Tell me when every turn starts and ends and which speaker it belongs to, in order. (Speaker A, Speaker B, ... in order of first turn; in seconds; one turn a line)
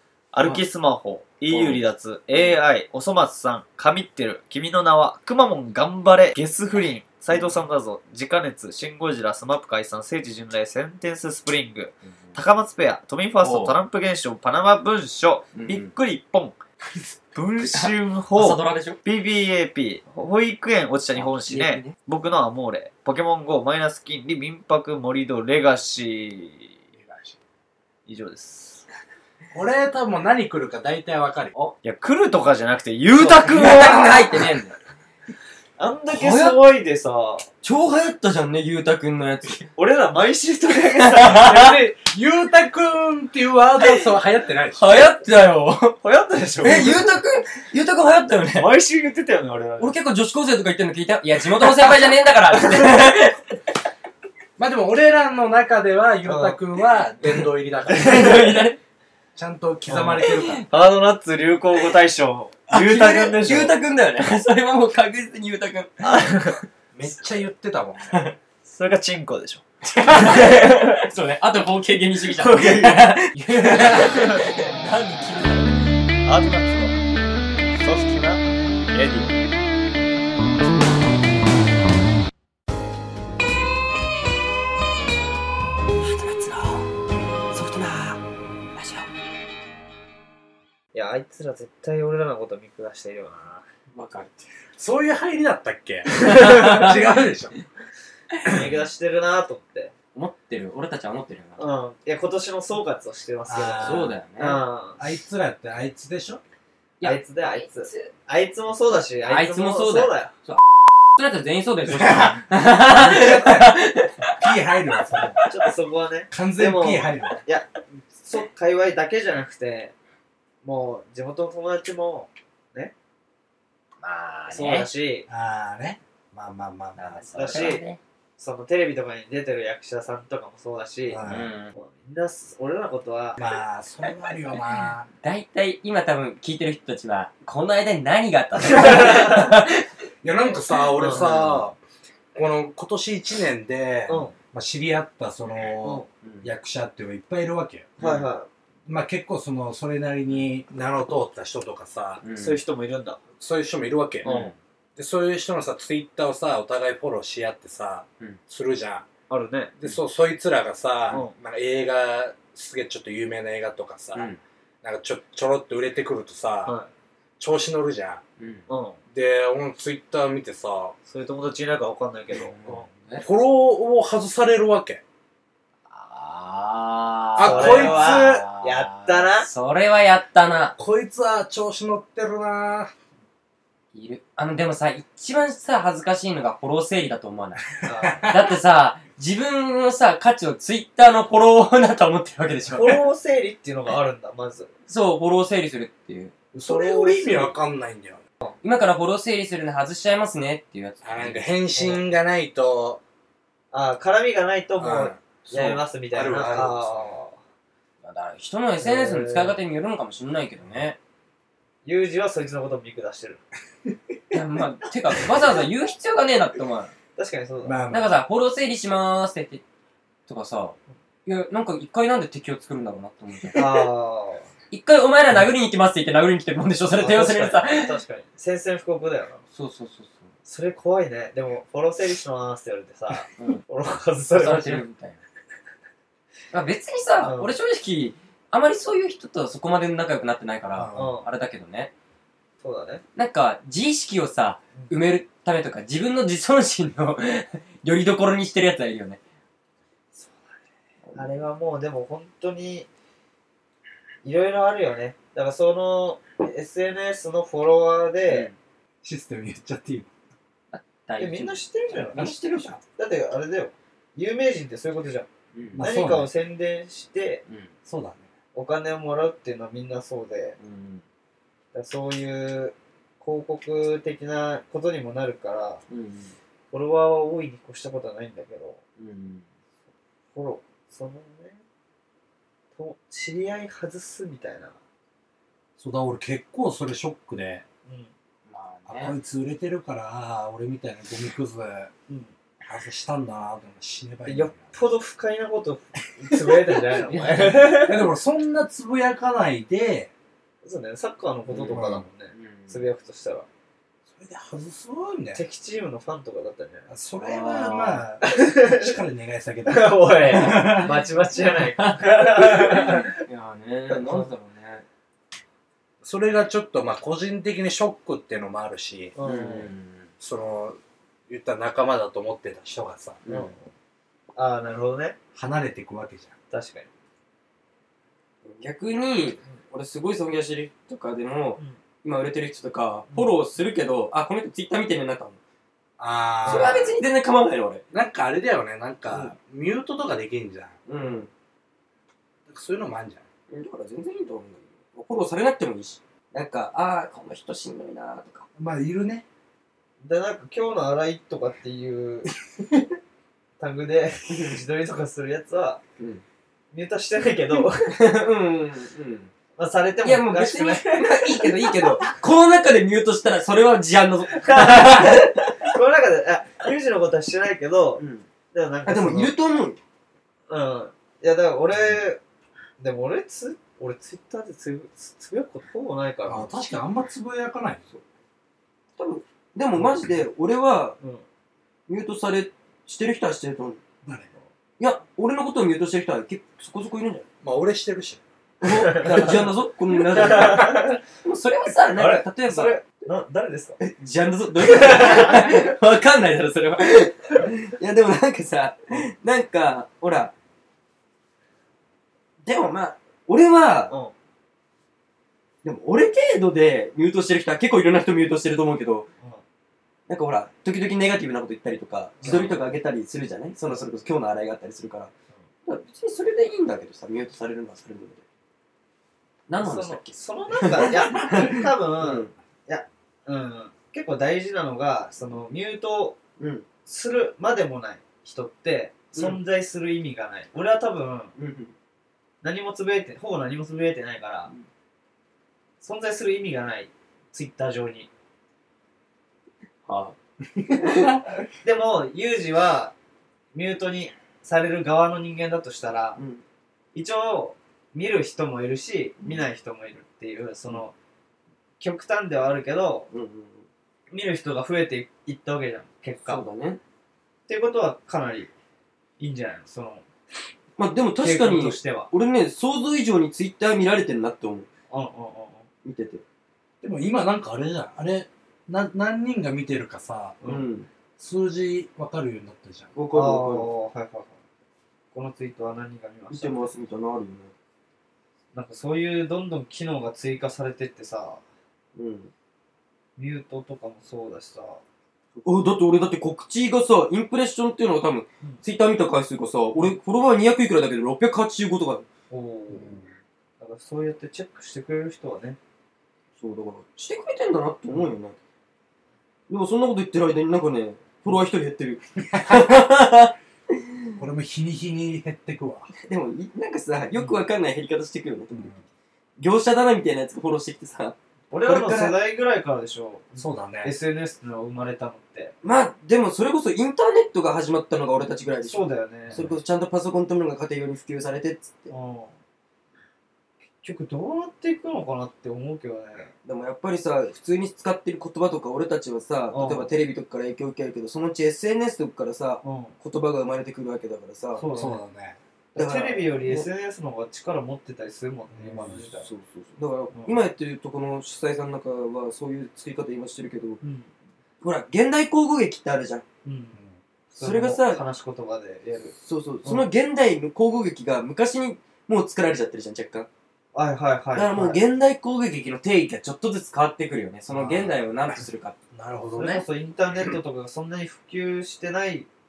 Speaker A: 0.3-16.6
Speaker B: 1.5-1.8
Speaker B: 13.4-13.8
Speaker B: 15.5-15.9
Speaker A: 17.4-26.8
Speaker B: 17.7-19.0
Speaker B: 21.1-21.9
Speaker A: 28.1-28.9
Speaker C: 29.5-31.5
Speaker A: 31.8-34.3
Speaker B: 33.1-34.8
Speaker A: 35.8-37.5
Speaker B: 36.1-36.6
Speaker B: 37.6-39.7
Speaker A: 39.8-41.6
Speaker B: 41.0-41.8
Speaker C: 41.3-44.9
Speaker B: 44.8-46.0
Speaker A: 46.0-47.0
Speaker B: 46.6-48.7
Speaker A: 48.6-50.0
Speaker B: 49.8-53.4
Speaker C: 54.6-58.4
Speaker A: 56.2-56.6
Speaker A: 57.9-58.7
Speaker B: 57.9-58.8
Speaker C: 59.4-60.6
Speaker A: 59.9-63.8
Speaker B: 60.3-60.6
Speaker B: 62.7-66.0
Speaker A: 66.0-66.6
Speaker C: 66.9-68.2
Speaker A: 68.7-71.0
Speaker B: 69.8-75.8
Speaker A: 72.4-74.5
Speaker A: 76.3-77.0
Speaker A: 77.8-79.3
Speaker B: 86.0-86.9
Speaker B: 87.5-88.2
Speaker B: 88.8-89.1
Speaker A: 90.9-93.7
Speaker B: 93.9-94.5
Speaker C: 94.8-97.5
Speaker A: 96.2-96.9
Speaker B: 96.4-96.9
Speaker A: 98.5-99.9
Speaker B: 100.1-101.6
Speaker A: 101.6-105.0
Speaker C: 103.5-104.2
Speaker B: 103.8-104.6
Speaker C: 105.0-106.4
Speaker B: 107.0-108.1
Speaker A: 107.0-110.3
Speaker B: 109.2-114.5
Speaker C: 112.0-113.8
Speaker C: 114.4-115.4
Speaker A: 115.5-119.9
Speaker C: 116.3-117.4
Speaker A: 120.6-122.9
Speaker B: 124.0-124.9
Speaker A: 124.5-125.3
Speaker C: 125.3-127.8
Speaker B: 127.0-128.0
Speaker A: 127.3-127.8
Speaker A: 128.4-131.2
Speaker C: 131.1-131.5
Speaker B: 131.2-131.7
Speaker A: 131.7-133.4
Speaker C: 133.4-135.1
Speaker B: 135.2-139.8
Speaker A: 138.9-139.2
Speaker C: 140.2-141.8
Speaker A: 141.0-141.3
Speaker B: 141.1-141.6
Speaker C: 142.3-147.9
Speaker A: 144.1-144.3
Speaker B: 146.2-146.5
Speaker B: 148.0-148.3
Speaker A: 148.0-148.5
Speaker C: 148.9-152.2
Speaker B: 152.2-152.6
Speaker A: 152.4-153.2
Speaker C: 153.4-154.3
Speaker B: 154.2-154.6
Speaker A: 154.2-154.5
Speaker C: 155.0-159.1
Speaker A: 159.3-159.7
Speaker C: 159.8-164.3
Speaker B: 164.2-164.4
Speaker C: 164.8-166.8
Speaker C: 167.4-168.2
Speaker B: 168.4-168.7
Speaker A: 168.7-169.0
Speaker C: 169.1-171.0
Speaker A: 171.1-172.8
Speaker B: 172.3-173.3
Speaker C: 173.2-175.0
Speaker B: 175.9-180.8
Speaker C: 177.4-178.4
Speaker A: 177.4-179.5
Speaker C: 180.8-182.9
Speaker B: 183.9-187.7
Speaker A: 187.8-188.3
Speaker C: 188.0-188.4
Speaker B: 188.2-193.0
Speaker A: 192.7-194.7
Speaker B: 194.9-196.3
Speaker C: 196.5-198.2
Speaker A: 196.6-197.5
Speaker B: 198.6-201.7
Speaker C: 201.0-203.0
Speaker A: 203.7-207.4
Speaker C: 204.8-207.1
Speaker B: 208.0-211.0
Speaker A: 208.8-209.6
Speaker A: 211.8-213.4
Speaker B: 214.3-216.9
Speaker A: 217.2-217.8
Speaker C: 217.6-218.2
Speaker B: 217.9-219.6
Speaker B: 220.3-223.9
Speaker A: 223.6-224.5
Speaker B: 224.7-228.0
Speaker A: 227.0-229.4
Speaker B: 229.5-230.3
Speaker A: 230.5-234.8
Speaker B: 233.4-233.6
Speaker B: 234.3-235.2
Speaker B: 236.5-241.9
Speaker A: 237.2-237.5
Speaker C: 240.7-241.2
Speaker A: 240.9-241.3
Speaker A: 242.6-243.0
Speaker B: 243.2-249.2
Speaker A: 250.1-250.6
Speaker A: 251.2-252.9
Speaker A: 254.2-258.5
Speaker B: 258.3-258.6
Speaker C: 259.0-260.1
Speaker B: 260.7-262.8
Speaker A: 261.2-265.3
Speaker B: 265.5-265.9
Speaker C: 265.7-266.3
Speaker A: 265.8-267.4
Speaker C: 267.9-268.3
Speaker A: 268.6-270.6
Speaker B: 270.6-271.0
Speaker A: 271.7-275.8
Speaker B: 275.9-276.3
Speaker A: 276.7-278.8
Speaker B: 279.0-279.4
Speaker A: 280.3-281.6
Speaker A: 282.8-284.8
Speaker C: 285.8-287.6
Speaker A: 287.9-288.1
Speaker B: 288.5-289.1
Speaker C: 288.9-291.9
Speaker C: 292.6-294.8
Speaker A: 294.3-298.1
Speaker B: 297.1-297.8
Speaker C: 297.5-300.1
Speaker A: 300.6-303.5
Speaker B: 301.5-302.9
Speaker C: 301.7-302.1
Speaker C: 304.1-305.4
Speaker A: 305.4-306.9
Speaker C: 306.9-310.9
Speaker B: 307.2-308.1
Speaker A: 308.2-308.9
Speaker A: 309.7-313.1
Speaker B: 311.8-314.9
Speaker A: 313.9-314.3
Speaker C: 316.0-319.1
Speaker A: 319.2-319.7
Speaker B: 319.2-320.1
Speaker C: 320.2-323.2
Speaker B: 323.2-323.6
Speaker A: 323.3-323.6
Speaker A: 324.4-325.2
Speaker C: 325.4-326.3
Speaker A: 326.5-326.9
Speaker B: 328.4-335.4
Speaker C: 336.0-336.9
Speaker B: 336.4-337.8
Speaker A: 336.5-336.9
Speaker C: 337.9-340.8
Speaker B: 339.1-339.3
Speaker B: 340.9-341.3
Speaker C: 342.5-343.2
Speaker B: 343.5-348.5
Speaker C: 348.6-349.2
Speaker A: 350.0-352.3
Speaker A: 353.6-355.8
Speaker B: 354.3-354.6
Speaker A: 356.7-358.0
Speaker B: 357.9-359.3
Speaker A: 359.6-362.1
Speaker B: 360.0-365.7
Speaker A: 364.4-369.4
Speaker B: 368.0-368.3
Speaker B: 368.9-369.8
Speaker A: 370.5-372.2
Speaker A: 372.8-376.5
Speaker C: 376.3-377.9
Speaker B: 379.0-381.0
Speaker B: 381.9-383.8
Speaker B: 384.8-387.3
Speaker C: 387.4-388.2
Speaker B: 388.6-392.8
Speaker A: 388.7-389.4
Speaker A: 390.1-391.0
Speaker A: 391.9-393.8
Speaker B: 393.8-400.3
Speaker A: 394.6-395.6
Speaker B: 402.4-403.9
Speaker B: 405.6-409.1
Speaker B: 410.1-415.1
Speaker A: 412.2-412.6
Speaker B: 415.7-418.2
Speaker B: 419.5-422.3
Speaker A: 419.6-426.2
Speaker B: 426.4-426.7
Speaker A: 426.9-431.4
Speaker B: 431.4-431.7
Speaker A: 432.4-434.5
Speaker A: 435.8-438.1
Speaker B: 439.9-441.2
Speaker A: 441.6-442.9
Speaker A: 443.5-446.2
Speaker B: 446.2-446.4
Speaker A: 446.9-450.9
Speaker A: 451.8-453.1
Speaker B: 453.1-453.6
Speaker A: 454.1-456.4
Speaker B: 456.2-456.8
Speaker A: 457.5-458.5
Speaker A: 459.2-460.1
Speaker B: 460.8-464.7
Speaker A: 461.2-462.1
Speaker A: 464.9-465.7
Speaker B: 465.8-466.2
Speaker C: 466.8-470.4
Speaker A: 470.4-470.7
Speaker B: 470.5-470.9
Speaker C: 471.2-472.9
Speaker B: 473.0-473.7
Speaker A: 473.1-474.4
Speaker A: 475.1-476.7
Speaker B: 476.3-477.5
Speaker A: 478.5-481.4
Speaker B: 482.0-482.3
Speaker A: 483.2-484.8
Speaker B: 485.4-492.1
Speaker A: 492.3-493.0
Speaker A: 493.6-495.6
Speaker B: 496.4-498.4
Speaker B: 499.5-504.1
Speaker C: 502.3-502.6
Speaker C: 504.2-505.9
Speaker B: 506.0-508.7
Speaker C: 508.5-508.8
Speaker B: 509.4-512.2
Speaker A: 511.5-515.5
Speaker C: 513.4-513.9
Speaker B: 515.6-521.9
Speaker A: 518.7-519.4
Speaker C: 519.3-519.6
Speaker A: 521.9-522.3
Speaker A: 523.8-526.3
Speaker B: 526.5-534.7
Speaker A: 529.5-529.9
Speaker A: 532.6-533.0
Speaker A: 534.6-535.0
Speaker C: 534.7-535.4
Speaker B: 535.8-536.7
Speaker A: 535.8-539.3
Speaker C: 538.5-539.1
Speaker B: 539.2-543.8
Speaker A: 543.8-544.1
Speaker B: 544.6-546.2
Speaker A: 546.5-546.8
Speaker C: 546.8-547.0
Speaker A: 547.3-549.9
Speaker B: 547.4-548.0
Speaker B: 549.2-553.3
Speaker A: 553.7-554.8
Speaker B: 554.4-558.8
Speaker C: 557.5-559.6
Speaker A: 559.4-562.3